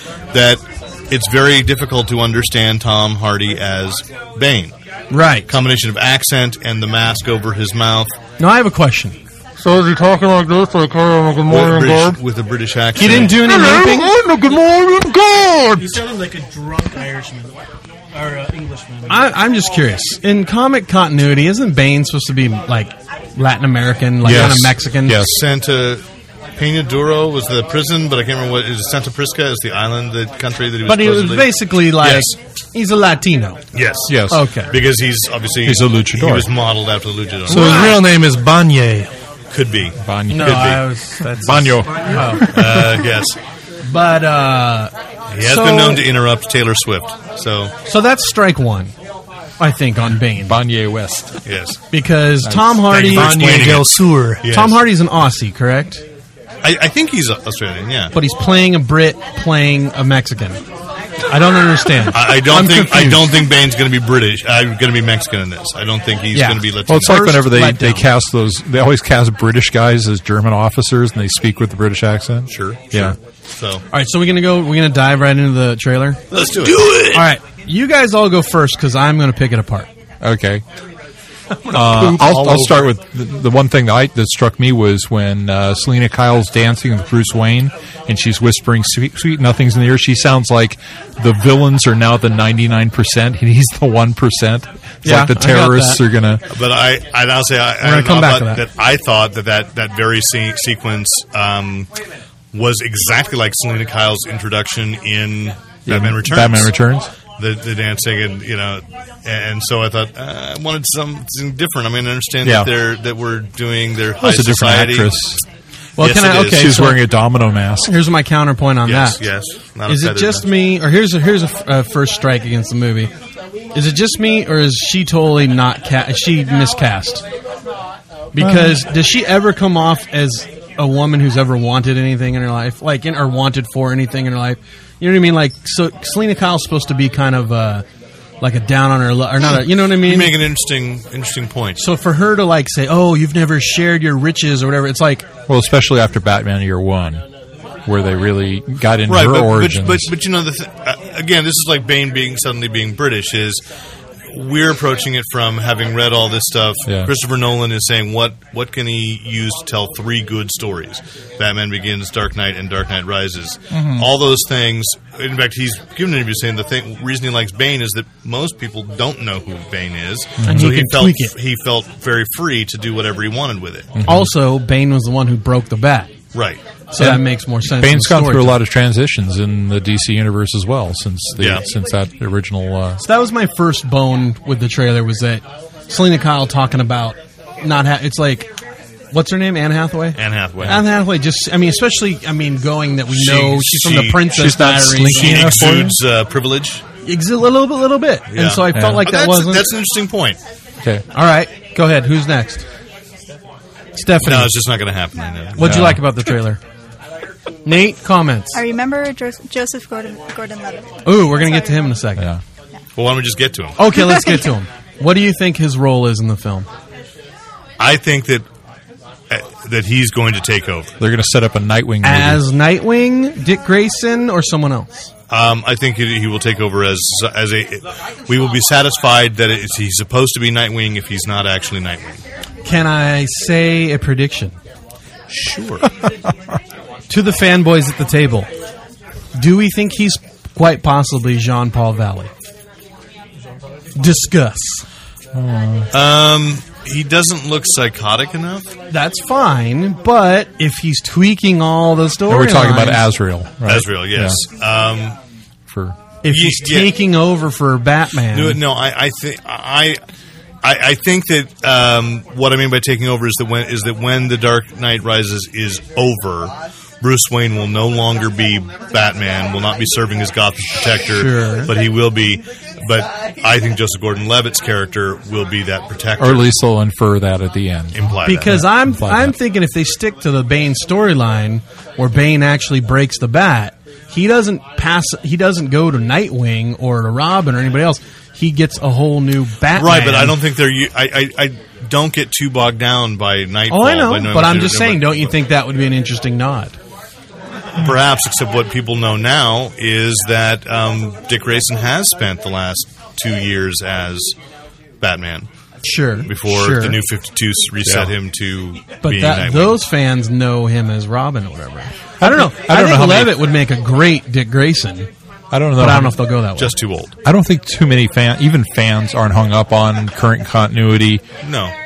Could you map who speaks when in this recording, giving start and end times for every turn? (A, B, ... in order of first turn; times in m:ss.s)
0:00.3-0:04.7 A
0:05.1-0:05.5 B
0:05.5-0:08.1 A
0:08.4-0:09.2 B
0:09.6-0:12.2 C
0:11.5-0:13.5 A
0:13.0-0:14.1 B
0:13.3-0:16.0 C
0:15.8-0:17.5 D
0:18.1-0:19.2 D
0:19.1-0:25.2 B
0:24.2-0:25.4 E
0:25.2-0:26.0 A
0:26.6-0:32.3 A
0:30.8-0:33.6 B
0:33.7-0:38.0 A
0:34.1-0:34.4 E
0:34.3-0:34.7 B
0:35.6-0:36.5 E
0:37.5-0:39.1 F
0:37.5-0:38.0 B
0:39.5-0:40.8 A
0:40.0-0:43.1 E
0:40.3-0:42.5 B
0:41.7-0:42.5 D
0:42.5-0:43.4 A
0:43.8-0:46.0 B
0:45.3-0:47.7 A
0:47.8-0:48.9 B
0:49.6-0:50.6 B
0:50.4-0:51.4 E
0:51.4-0:51.8 A
0:51.9-0:53.8 B
0:52.4-0:52.8 E
0:52.9-0:54.8 A
0:53.0-0:54.4 F
0:54.4-0:56.0 B
0:56.6-0:58.1 A
0:58.1-1:00.6 B
1:01.3-1:03.3 B
1:02.1-1:07.2 A
1:06.3-1:08.1 B
1:06.9-1:13.2 E
1:12.5-1:13.8 A
1:13.9-1:16.2 B
1:16.3-1:17.2 A
1:17.0-1:19.9 B
1:20.2-1:20.6 E
1:21.7-1:36.4 E
1:21.7-1:22.9 A
1:35.0-1:36.0 B
1:36.5-1:41.9 A
1:37.8-1:38.6 B
1:42.5-1:46.7 A
1:45.8-1:47.1 E
1:47.4-1:55.1 A
1:52.4-1:52.7 E
1:54.2-1:55.4 E
1:56.0-1:57.0 B
1:56.0-1:56.7 A
1:56.4-1:57.9 E
1:57.9-1:59.2 B
1:58.8-2:00.5 A
1:59.9-2:03.1 B
2:03.7-2:07.2 B
2:08.3-2:17.8 B
2:08.4-2:08.8 E
2:18.4-2:20.4 B
2:19.8-2:21.8 A
2:21.8-2:25.2 B
2:25.5-2:27.2 E
2:27.8-2:30.1 E
2:29.1-2:33.6 A
2:34.3-2:53.9 A
2:43.7-2:44.1 E
2:50.4-2:50.6 E
2:50.4-2:51.3 B
2:54.0-2:54.3 E
2:54.0-2:56.1 B
2:56.3-2:56.6 A
2:56.9-2:58.6 B
2:57.0-3:03.0 E
3:01.4-3:01.6 A
3:03.0-3:08.5 B
3:09.1-3:15.4 B
3:10.2-3:10.8 A
3:13.1-3:14.3 A
3:14.3-3:16.0 E
3:15.0-3:16.8 A
3:17.0-3:19.7 B
3:18.3-3:20.4 A
3:18.7-3:19.0 E
3:21.1-3:22.6 B
3:24.0-3:24.5 B
3:24.2-3:26.0 A
3:25.6-3:26.6 B
3:25.6-3:26.0 E
3:27.6-3:28.6 B
3:28.5-3:31.5 G
3:31.0-3:32.3 B
3:33.0-3:33.9 A
3:33.8-3:36.7 B
3:37.8-3:38.4 A
3:39.3-3:40.9 A
3:41.0-3:42.4 E
3:42.0-3:45.0 B
3:45.3-3:52.2 A
3:52.6-3:54.6 B
3:55.3-3:55.8 A
3:57.1-3:58.5 B
3:59.3-4:02.3 B
4:04.0-4:04.8 B
4:05.3-4:05.9 E
4:05.9-4:08.7 A
4:08.9-4:13.0 B
4:12.3-4:14.4 E
4:13.6-4:15.2 A
4:15.7-4:16.0 E
4:16.2-4:18.6 B
4:16.3-4:16.9 A
4:18.3-4:20.0 A
4:20.6-4:36.4 A
4:31.0-4:31.7 B
4:36.2-4:39.3 E
4:37.9-4:38.6 A
4:38.2-4:50.4 B
4:49.7-4:55.3 A
4:53.7-4:56.7 B
4:57.8-5:04.3 A
5:05.0-5:05.5 A
5:05.8-5:07.0 B
5:06.2-5:09.8 A
5:07.8-5:08.1 E
5:09.0-5:15.1 B
5:12.2-5:13.4 E
5:15.5-5:16.2 E
5:15.8-5:16.8 B
5:16.6-5:17.1 A
5:17.2-5:21.2 E
5:21.4-5:21.7 A